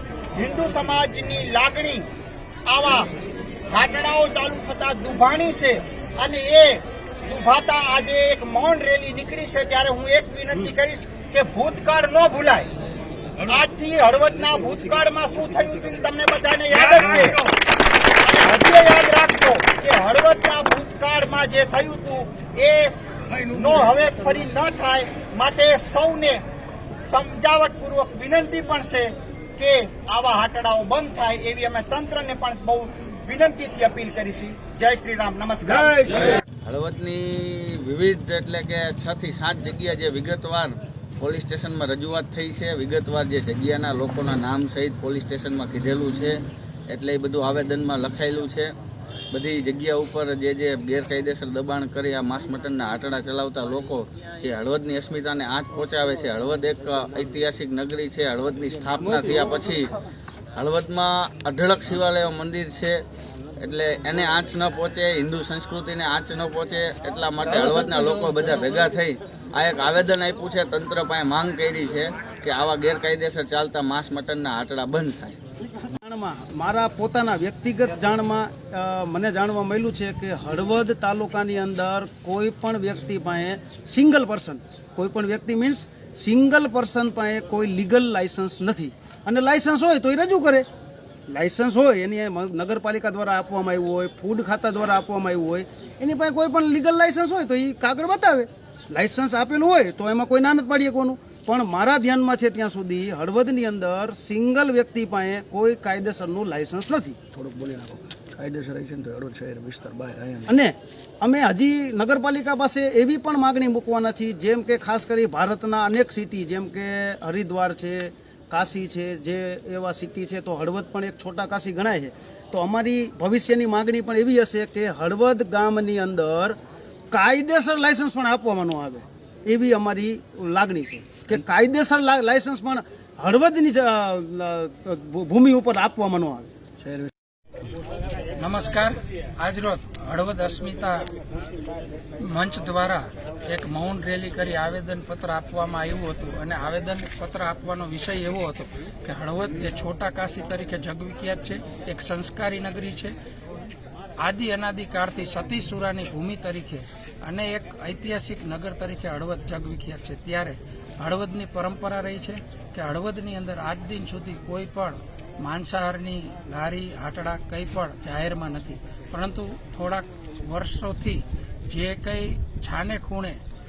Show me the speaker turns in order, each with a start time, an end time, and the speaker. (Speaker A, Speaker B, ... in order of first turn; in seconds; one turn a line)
Speaker A: 0.3-2.0
Speaker A: 2.7-3.1
Speaker A: 3.7-12.7
Speaker A: 13.4-17.5
Speaker A: 18.2-26.4
Speaker A: 27.1-36.3
Speaker B: 36.6-46.3
Speaker B: 46.9-48.7
Speaker B: 49.3-59.9
Speaker B: 60.5-63.0
Speaker B: 63.6-75.4
Speaker C: 75.9-90.7
Speaker C: 91.3-107.2
Speaker D: 107.3-110.5
Speaker C: 110.5-126.5
Speaker C: 127.1-136.5
Speaker D: 136.8-137.1
Speaker E: 138.4-141.1
Speaker E: 142.2-153.1
Speaker E: 154.2-173.4